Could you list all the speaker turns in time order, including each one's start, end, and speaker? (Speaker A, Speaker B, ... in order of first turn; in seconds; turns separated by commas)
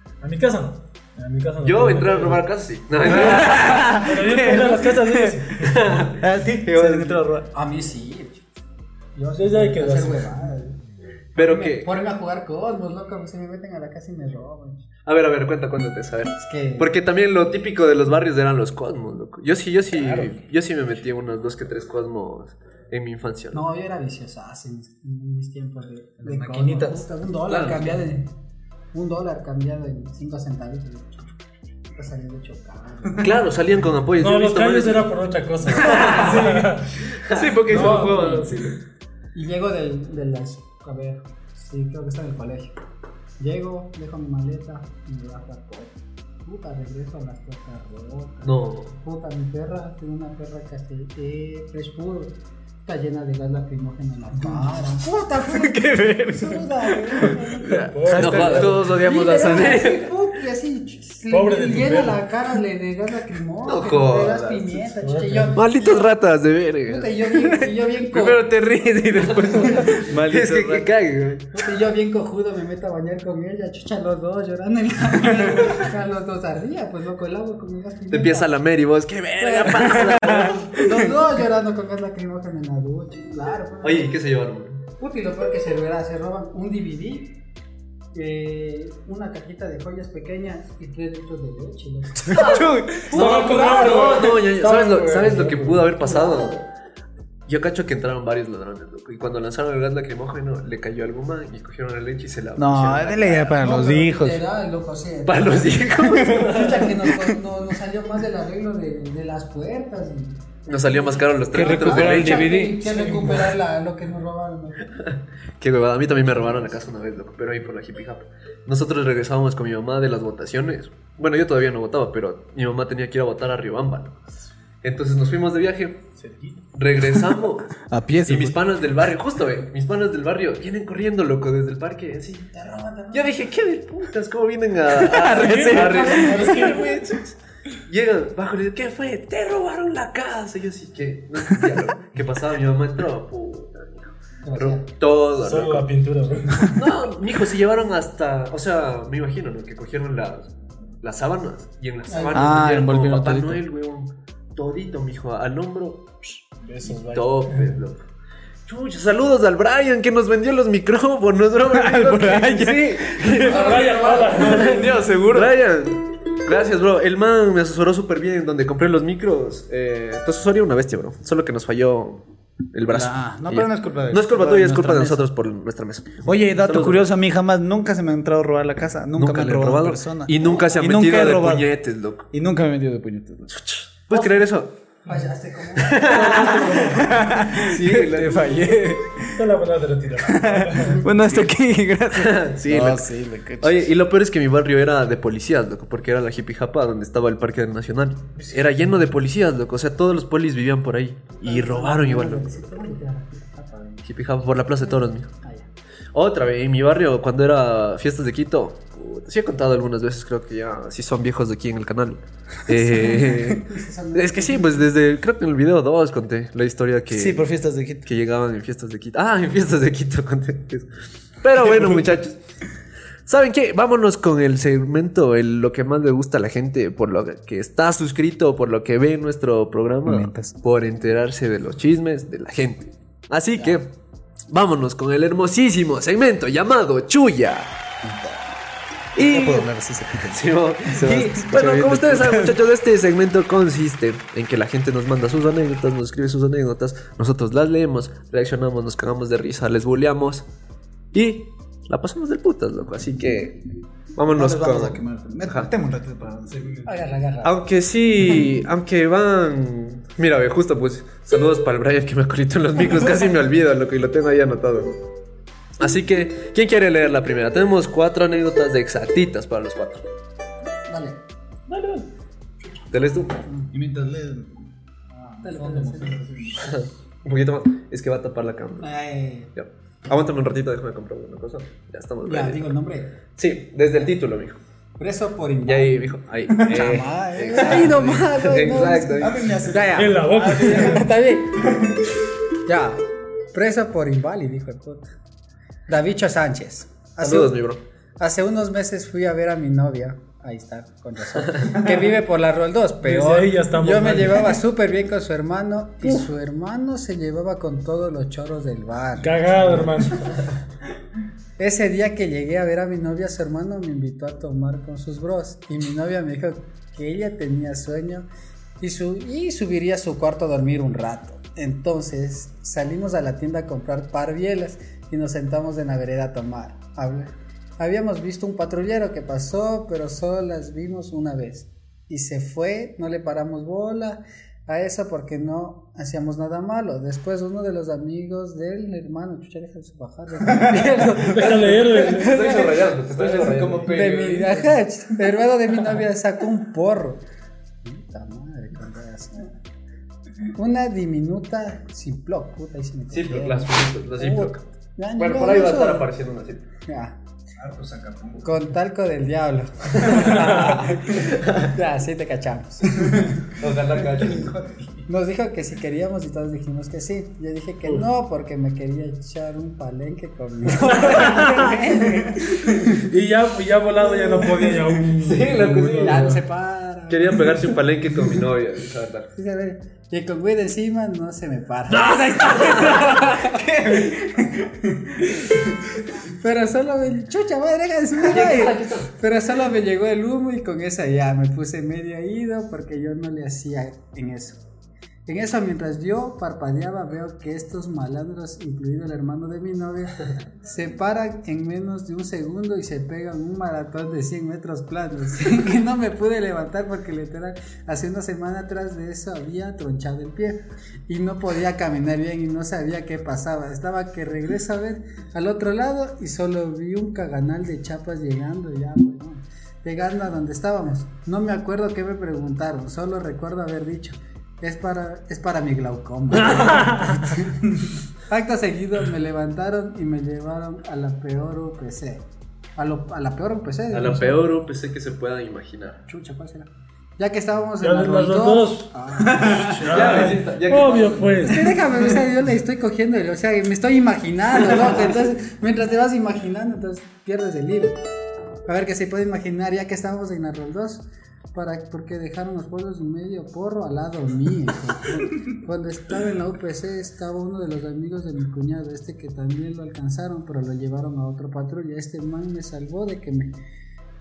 Speaker A: 0.2-2.4, Speaker B: 1.6-4.7, Speaker A: 3.0-6.1, Speaker C: 3.2-5.4, Speaker B: 5.6-7.2, Speaker C: 6.2-7.5, Speaker D: 7.5-8.4, Speaker D: 9.2-10.8, Speaker A: 9.4-10.4, Speaker B: 11.3-11.9, Speaker D: 11.3-14.8, Speaker B: 15.1-23.6, Speaker D: 16.4-16.9, Speaker D: 23.5-28.3, Speaker C: 26.2-27.0, Speaker B: 26.6-28.0, Speaker D: 28.9-31.1, Speaker D: 31.9-33.3, Speaker B: 33.2-35.1, Speaker A: 34.2-37.0, Speaker B: 35.6-38.8, Speaker D: 35.9-36.6, Speaker D: 37.3-38.7, Speaker D: 39.4-42.8, Speaker D: 43.4-57.9, Speaker B: 48.4-49.0, Speaker C: 54.3-58.9, Speaker A: 57.6-58.9, Speaker B: 58.1-60.1, Speaker D: 58.7-66.1, Speaker A: 61.3-62.2, Speaker B: 63.6-64.8, Speaker A: 65.0-65.6, Speaker B: 65.5-67.5, Speaker D: 66.9-68.5, Speaker B: 68.1-71.5, Speaker C: 68.4-70.9, Speaker D: 69.3-70.1, Speaker D: 71.5-78.5, Speaker B: 78.1-81.1, Speaker D: 79.4-84.1, Speaker C: 79.9-80.7, Speaker B: 83.8-84.8, Speaker D: 85.0-87.4, Speaker D: 88.1-92.6, Speaker C: 92.2-93.6, Speaker B: 92.3-96.6, Speaker A: 93.1-95.9, Speaker D: 96.0-96.6, Speaker B: 97.5-103.8, Speaker C: 102.6-104.4, Speaker D: 103.5-110.4, Speaker B: 105.3-106.7, Speaker A: 106.3-106.9, Speaker B: 110.7-112.6, Speaker D: 110.9-114.9, Speaker C: 111.5-112.8, Speaker A: 111.6-113.5, Speaker B: 115.6-124.2, Speaker D: 116.3-116.7, Speaker B: 124.8-126.0, Speaker A: 126.2-126.6, Speaker B: 126.7-132.6, Speaker C: 127.8-128.6, Speaker C: 132.5-133.5, Speaker B: 133.1-145.9, Speaker C: 134.9-136.1, Speaker A: 135.2-137.1, Speaker D: 135.8-136.9, Speaker D: 144.4-144.9, Speaker A: 145.4-146.8, Speaker B: 146.7-150.5, Speaker B: 151.0-158.0, Speaker D: 152.1-152.6, Speaker C: 152.3-153.6, Speaker A: 156.6-157.8, Speaker B: 158.7-172.2, Speaker C: 161.7-163.7, Speaker A: 163.4-165.0, Speaker D: 163.4-165.1, Speaker C: 164.3-165.5, Speaker B: 172.7-177.1, Speaker C: 172.9-175.2, Speaker C: 176.2-181.7, Speaker B: 179.2-182.3, Speaker C: 182.3-183.6, Speaker B: 183.6-184.7, Speaker D: 185.1-186.9, Speaker B: 185.8-188.8, Speaker A: 186.0-187.2, Speaker C: 186.7-189.4, Speaker A: 189.3-191.1, Speaker C: 190.2-193.8, Speaker B: 192.1-193.1, Speaker B: 193.6-202.9, Speaker D: 201.4-204.1, Speaker B: 204.1-205.3, Speaker D: 204.8-205.7, Speaker B: 206.1-217.4, Speaker D: 212.8-214.9, Speaker C: 217.1-218.1, Speaker B: 218.1-222.4, Speaker C: 221.6-222.1, Speaker B: 223.3-233.9, Speaker C: 230.1-230.6, Speaker B: 234.5-237.7, Speaker C: 238.0-238.6, Speaker B: 239.2-250.4, Speaker C: 239.2-242.6, Speaker B: 251.1-253.7, Speaker B: 254.2-255.7, Speaker C: 254.3-256.9, Speaker D: 256.9-257.5, Speaker B: 257.4-265.0, Speaker B: 265.8-270.1, Speaker D: 270.9-271.2, Speaker A: 271.7-272.1, Speaker B: 272.9-273.4, Speaker C: 273.7-276.8, Speaker D: 275.4-276.2, Speaker B: 276.6-278.9, Speaker D: 278.8-279.5, Speaker B: 279.6-282.7, Speaker D: 282.2-283.1, Speaker B: 283.4-284.6, Speaker D: 285.0-286.1, Speaker B: 285.7-289.5, Speaker C: 286.5-288.2, Speaker D: 286.8-291.9, Speaker C: 289.2-292.0, Speaker A: 289.9-291.1, Speaker D: 292.7-295.1, Speaker D: 295.9-297.6, Speaker B: 297.2-297.8, Speaker D: 298.2-309.8, Speaker A: 303.0-304.6, Speaker A: 309.2-310.3, Speaker D: 311.6-318.3, Speaker D: 318.8-342.8, Speaker B: 340.7-344.2, Speaker A: 341.2-342.6, Speaker C: 342.5-344.7, Speaker D: 343.9-347.2, Speaker D: 347.8-349.6, Speaker D: 350.5-356.1, Speaker B: 353.1-354.6, Speaker B: 355.2-356.6, Speaker D: 356.9-357.2, Speaker C: 357.6-358.7, Speaker D: 358.4-363.4, Speaker B: 359.9-361.7, Speaker B: 363.6-364.6, Speaker C: 364.2-365.1, Speaker D: 365.1-373.1, Speaker A: 370.9-371.8, Speaker B: 370.9-371.3, Speaker A: 372.6-376.4, Speaker B: 375.2-376.4, Speaker D: 376.0-377.5, Speaker B: 377.1-379.3, Speaker D: 379.3-385.7, Speaker A: 382.0-383.1, Speaker B: 382.6-383.3, Speaker C: 383.3-384.6, Speaker D: 386.2-394.6, Speaker B: 388.2-389.1, Speaker D: 395.3-434.4, Speaker A: 426.4-427.3, Speaker B: 433.9-436.0, Speaker D: 436.1-440.3, Speaker A: 437.8-441.8, Speaker C: 439.3-440.0, Speaker B: 439.9-441.7, Speaker D: 441.4-447.9, Speaker D: 448.7-463.5